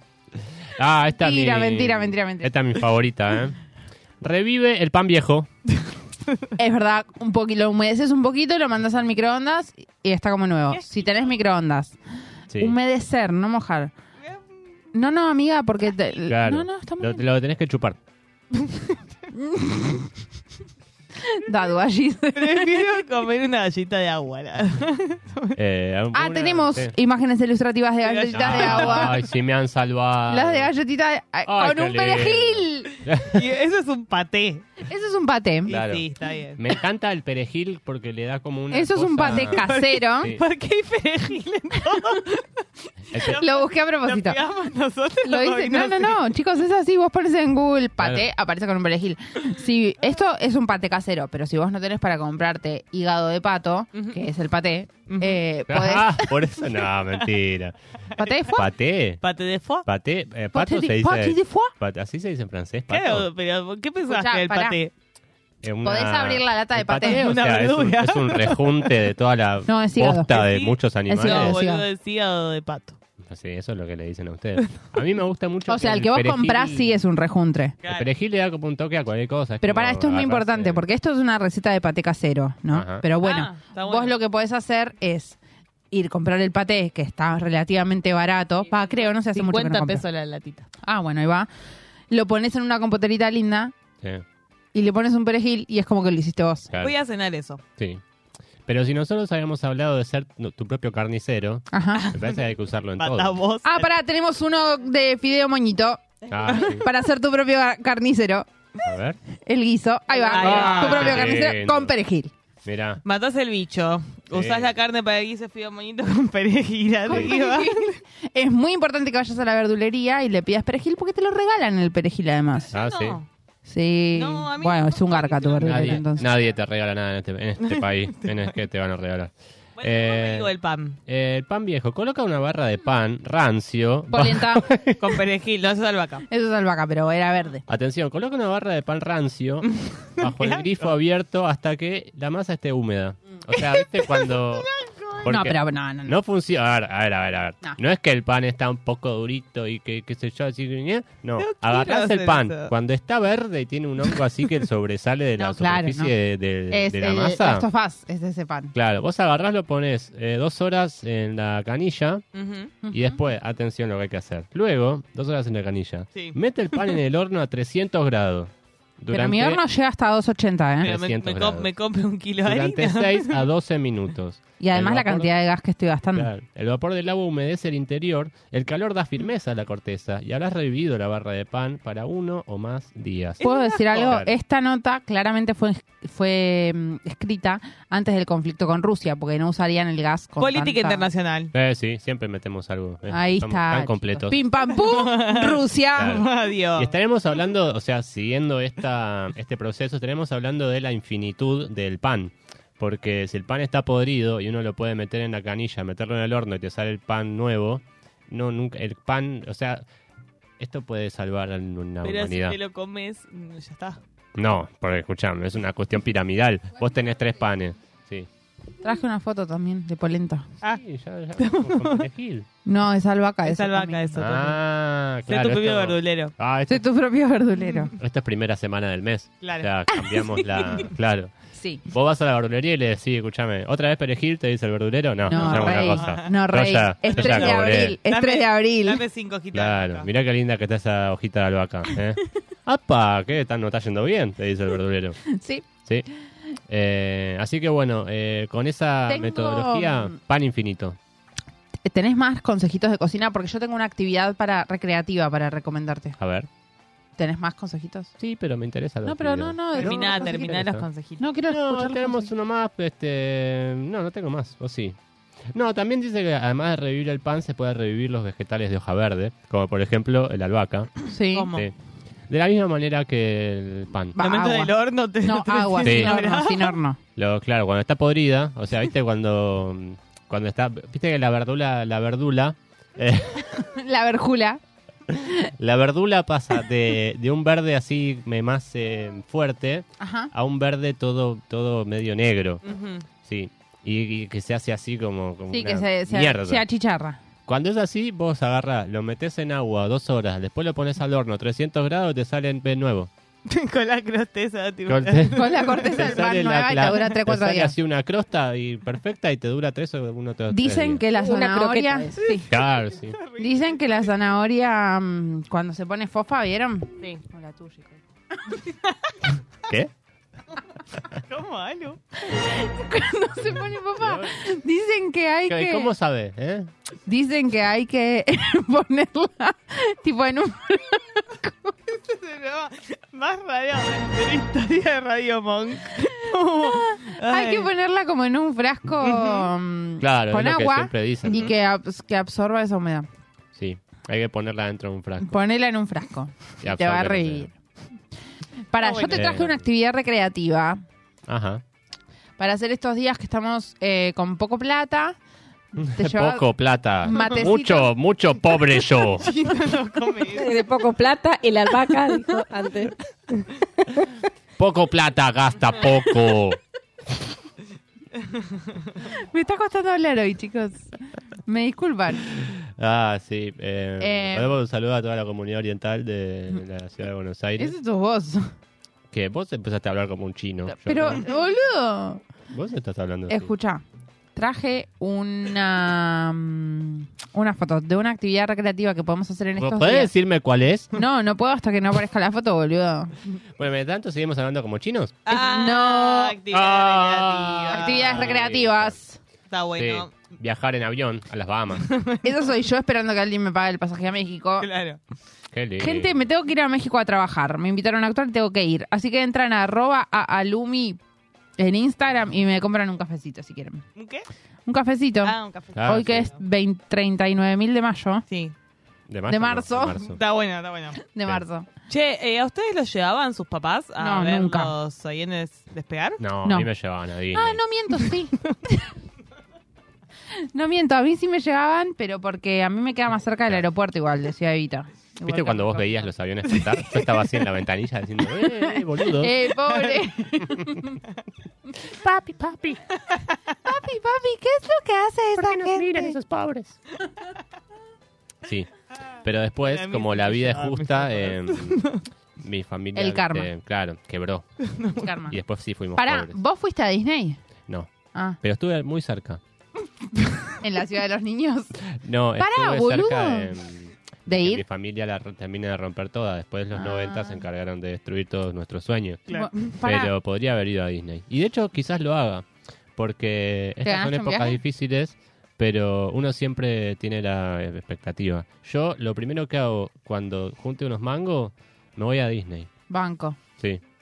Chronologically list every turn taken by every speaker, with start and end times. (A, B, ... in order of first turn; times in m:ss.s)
0:00.8-0:03.6 A
0:01.2-0:02.5 B
0:04.2-0:05.5 A
0:06.6-0:12.0 B
0:10.7-0:11.3 C
0:12.5-0:12.8 A
0:12.6-0:13.9 B
0:14.2-0:14.5 C
0:14.9-0:17.2 B
0:16.3-0:18.0 A
0:18.5-0:19.0 C
0:19.3-0:20.1 B
0:21.2-0:22.9 B
0:22.3-0:25.6 C
0:25.5-0:26.9 A
0:26.1-0:29.1 B
0:28.0-0:29.2 C
0:28.3-0:30.7 A
0:30.3-0:32.9 B
0:31.4-0:33.4 A
0:33.2-0:34.8 C
0:34.9-0:35.7 B
0:35.6-0:36.6 C
0:35.7-0:36.0 A
0:36.6-0:39.6 A
0:38.7-0:40.3 B
0:39.2-0:46.2 C
0:40.2-0:40.4 A
0:43.1-0:43.4 A
0:43.2-0:44.4 B
0:45.2-0:56.4 B
0:48.0-0:48.3 A
0:53.9-0:54.2 C
0:55.1-0:55.4 C
0:55.7-0:57.7 A
0:58.2-0:58.7 B
0:58.2-0:58.5 C
0:58.5-0:59.2 A
0:59.2-0:59.9 C
0:59.8-1:03.3 A
1:00.5-1:01.7 B
1:02.9-1:04.9 C
1:04.1-1:04.8 B
1:05.6-1:11.6 A
1:05.8-1:07.3 B
1:07.0-1:09.0 C
1:09.7-1:10.4 B
1:10.3-1:13.0 C
1:11.1-1:11.8 B
1:13.2-1:17.0 A
1:15.7-1:17.8 B
1:17.8-1:18.1 C
1:17.9-1:20.8 A
1:19.6-1:25.4 B
1:22.7-1:23.0 A
1:23.2-1:24.2 C
1:25.9-1:30.0 B
1:29.3-1:30.7 C
1:30.8-1:31.5 B
1:32.1-1:33.7 B
1:34.7-1:36.7 B
1:36.7-1:36.9 A
1:36.8-1:37.6 C
1:37.8-1:38.0 A
1:38.6-1:43.4 A
1:41.7-1:42.1 B
1:42.0-1:42.4 C
1:43.0-1:43.9 C
1:43.6-1:48.5 B
1:46.3-1:46.9 A
1:48.8-1:49.2 A
1:49.4-1:52.3 B
1:50.2-1:51.5 C
1:50.4-1:51.9 A
1:52.6-1:53.0 A
1:53.0-1:58.0 C
1:54.3-1:54.7 A
1:57.1-2:02.7 B
2:02.7-2:03.3 C
2:02.7-2:03.2 A
2:03.6-2:06.2 B
2:04.1-2:06.5 C
2:05.6-2:10.5 A
2:07.6-2:08.5 C
2:09.8-2:11.0 C
2:11.1-2:15.2 A
2:14.1-2:14.7 B
2:15.0-2:16.2 C
2:16.3-2:17.6 B
2:17.7-2:24.7 A
2:19.7-2:20.8 C
2:23.6-2:25.2 C
2:25.2-2:37.7 A
2:25.2-2:26.1 B
2:31.4-2:32.7 C
2:35.4-2:36.1 B
2:36.7-2:38.7 B
2:38.7-2:42.2 A
2:42.3-2:42.7 C
2:42.8-2:43.2 B
2:42.9-2:49.6 A
2:46.1-2:47.0 C
2:49.1-2:50.9 B
2:50.8-2:51.7 A
2:50.8-2:53.5 C
2:52.4-2:55.3 A
2:54.6-2:56.3 B
2:56.1-3:03.4 A
3:03.4-3:04.1 C
3:03.4-3:11.0 B
3:03.9-3:04.4 A
3:10.4-3:11.5 C
3:11.5-3:14.4 A
3:13.1-3:16.2 B
3:14.7-3:16.9 C
3:16.0-3:29.8 A
3:30.6-3:32.6 A
3:32.0-3:34.0 C
3:34.4-3:38.3 A
3:38.8-3:40.5 B
3:40.6-3:42.5 A
3:41.4-3:42.1 C
3:42.6-3:44.3 B
3:43.4-3:44.6 C
3:44.2-3:46.9 A
3:45.3-3:46.3 C
3:46.7-3:47.9 B
3:47.6-3:47.9 C
3:48.0-3:51.3 A
3:49.4-3:50.9 C
3:51.6-3:51.8 B
3:51.9-3:58.0 A
3:55.3-3:59.0 B
3:55.3-3:56.3 C
3:57.0-4:00.1 C
3:59.5-4:05.2 A
4:05.3-4:05.6 B
4:06.7-4:11.0 A
4:09.1-4:10.1 B
4:11.8-4:16.2 B
4:16.2-4:16.5 A
4:17.2-4:18.1 B
4:18.2-4:20.9 A
4:19.0-4:20.6 B
4:19.7-4:21.2 C
4:21.2-4:22.3 B
4:21.5-4:25.0 A
4:25.5-4:30.9 A
4:31.1-4:31.6 B
4:31.3-4:31.6 C
4:32.3-4:34.2 A
4:34.2-4:37.0 B
4:34.2-4:36.8 C
4:35.8-4:36.2 A
4:37.2-4:43.5 A
4:43.5-4:44.6 B
4:45.6-4:52.6 A
4:50.0-4:50.3 B
4:52.6-4:53.0 C
4:53.2-4:56.6 A
4:55.5-4:57.2 B
4:57.4-5:03.1 A
5:03.4-5:06.2 C
5:04.9-5:11.0 A
5:05.3-5:07.7 B
5:10.5-5:12.5 B
5:11.2-5:12.3 D
5:12.2-5:14.2 C
5:12.5-5:13.2 A
5:13.4-5:18.6 B
5:21.2-5:22.0 C
5:22.2-5:25.9 B
5:24.0-5:24.4 A
5:25.5-5:26.7 A
5:27.0-5:31.7 B
5:31.9-5:37.7 C
5:36.6-5:43.1 B
5:39.0-5:39.5 C
5:40.0-5:41.5 A
5:43.5-5:45.3 A
5:45.2-5:47.5 B
5:46.6-5:47.5 A
5:48.7-5:50.8 B
5:48.8-5:49.3 C
5:49.1-5:49.6 A
5:51.3-5:51.6 A
5:52.4-5:55.2 B
5:55.7-5:56.4 B
5:55.8-5:59.3 A
5:57.0-5:57.9 B
5:57.1-5:57.5 C
5:59.2-6:00.6 C
6:00.3-6:03.4 D
6:04.6-6:06.6 A
6:09.1-6:10.9 B
6:11.4-6:12.4 B
6:12.5-6:17.8 A
6:14.0-6:14.5 B
6:17.6-6:18.5 B
6:19.1-6:21.2 A
6:20.7-6:22.2 B
6:22.5-6:23.5 A
6:23.3-6:23.8 B
6:24.3-6:30.1 B
6:29.6-6:30.9 A
6:30.9-6:33.2 B
6:33.6-6:35.2 A
6:35.2-6:38.4 C
6:35.3-6:36.3 B
6:36.5-6:39.0 A
6:37.7-6:39.2 B
6:39.5-6:40.2 C
6:39.8-6:41.9 A
6:41.8-6:42.2 C
6:42.2-6:44.7 B
6:44.6-6:45.0 C
6:45.5-6:46.2 A
6:45.8-6:51.0 B
6:51.6-6:53.8 B
6:54.0-6:54.3 C
6:54.6-6:58.2 B
6:55.2-6:56.4 C
6:55.7-6:56.3 A
6:58.3-6:58.6 C
6:59.1-7:00.2 A
6:59.3-7:00.1 B
7:00.1-7:01.0 C
7:01.0-7:01.7 B
7:01.9-7:06.2 C
7:04.0-7:04.7 B
7:06.2-7:07.6 A
7:07.3-7:08.9 B
7:10.5-7:16.1 B
7:15.2-7:19.3 A
7:16.5-7:17.3 C
7:19.0-7:21.0 B
7:21.8-7:22.8 A
7:23.6-7:26.2 B
7:25.4-7:26.8 A
7:28.4-7:28.7 A
7:29.2-7:34.4 A
7:29.6-7:32.0 C
7:32.9-7:33.5 B
7:34.7-7:35.1 C
7:35.0-7:35.4 B
7:35.3-7:36.4 A
7:36.0-7:37.4 B
7:38.4-7:39.4 A
7:40.6-7:41.8 B
7:41.9-7:49.3 A
7:42.4-7:43.5 B
7:44.3-7:44.6 B
7:46.7-7:47.4 B
7:49.3-7:49.6 C
7:49.3-7:50.1 B
7:49.8-8:02.7 A
7:53.8-7:54.6 B
8:02.9-8:03.4 B